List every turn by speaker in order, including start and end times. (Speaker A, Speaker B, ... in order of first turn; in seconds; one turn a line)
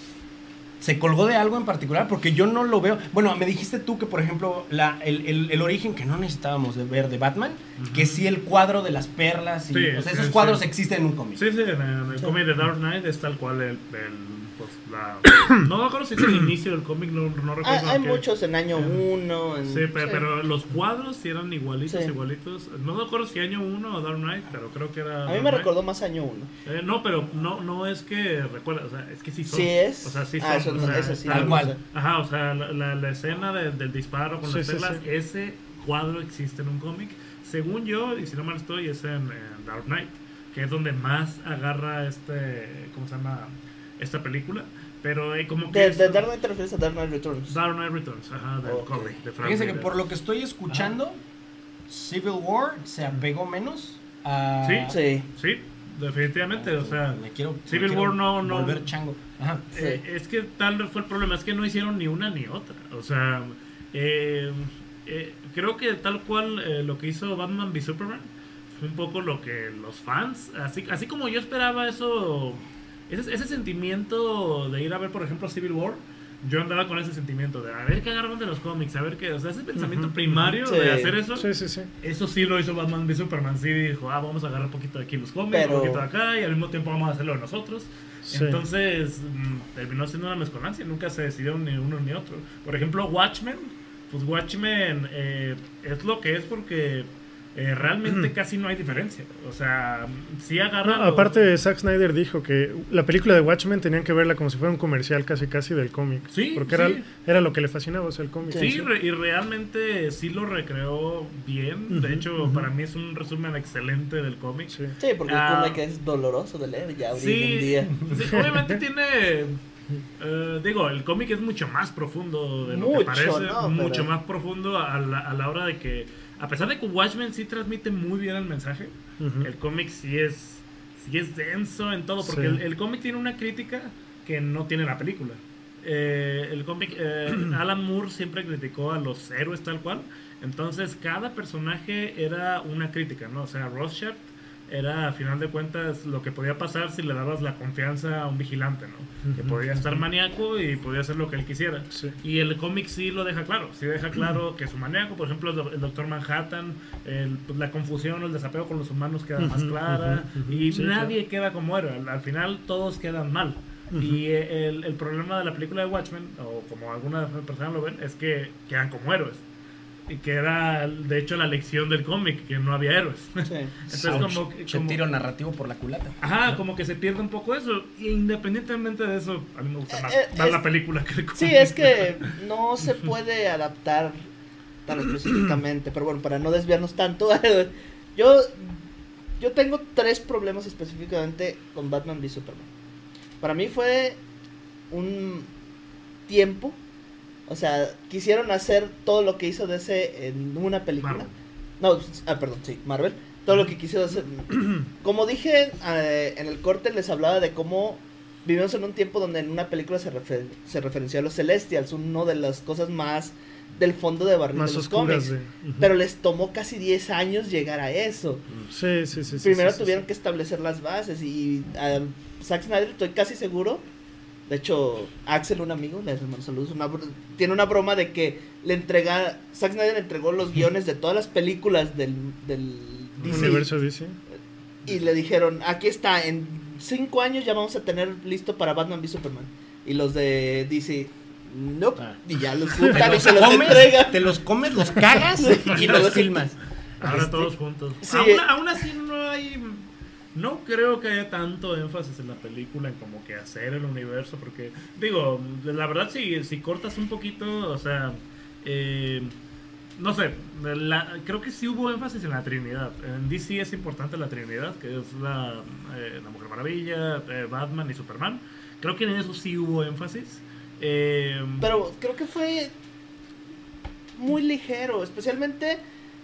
Speaker A: 0.8-11.4
Speaker B: 7.8-8.2
Speaker B: 9.7-10.6
Speaker B: 11.3-19.1
Speaker C: 17.6-20.2
Speaker B: 19.6-25.7
Speaker C: 25.2-26.5
Speaker B: 26.6-46.2
Speaker C: 29.5-31.8
Speaker A: 31.3-31.7
Speaker D: 34.4-35.0
Speaker C: 45.7-47.5
Speaker B: 47.5-49.9
Speaker C: 48.6-49.1
Speaker A: 49.4-51.2
Speaker A: 51.9-55.0
Speaker B: 54.6-58.9
Speaker C: 54.9-55.2
Speaker A: 56.5-59.7
Speaker B: 59.7-81.5
Speaker C: 59.7-60.0
Speaker D: 79.8-80.6
Speaker C: 80.7-81.1
Speaker D: 81.3-81.9
Speaker B: 82.0-101.4
Speaker C: 85.5-86.0
Speaker D: 88.3-88.6
Speaker D: 100.8-108.9
Speaker B: 106.3-107.0
Speaker B: 108.5-115.8
Speaker C: 108.5-108.8
Speaker D: 111.9-112.7
Speaker C: 115.0-118.0
Speaker B: 117.1-119.6
Speaker D: 118.3-118.7
Speaker B: 120.2-169.4
Speaker C: 122.6-124.1
Speaker D: 129.2-129.5
Speaker D: 132.2-132.6
Speaker D: 149.2-150.0
Speaker D: 159.4-161.1
Speaker D: 163.9-164.2
Speaker B: 170.1-175.0
Speaker C: 173.4-173.7
Speaker D: 173.9-174.3
Speaker A: 174.0-176.2
Speaker B: 176.2-182.1
Speaker C: 179.9-180.6
Speaker C: 181.3-184.2
Speaker C: 184.8-188.8
Speaker C: 189.4-192.7
Speaker C: 193.4-194.2
Speaker C: 194.9-195.5
Speaker C: 196.3-196.8
Speaker C: 197.5-201.3
Speaker B: 201.0-201.3
Speaker C: 201.8-218.4
Speaker D: 214.5-215.9
Speaker D: 218.7-220.0
Speaker C: 219.4-223.8
Speaker C: 224.5-233.7
Speaker B: 233.2-233.6
Speaker D: 233.2-234.2
Speaker C: 234.8-244.2
Speaker A: 242.8-247.4
Speaker D: 242.8-243.2
Speaker C: 245.3-246.5
Speaker B: 245.7-246.2
Speaker B: 247.0-259.3
Speaker C: 248.0-248.4
Speaker B: 260.0-271.7
Speaker C: 271.6-272.7
Speaker C: 274.1-275.8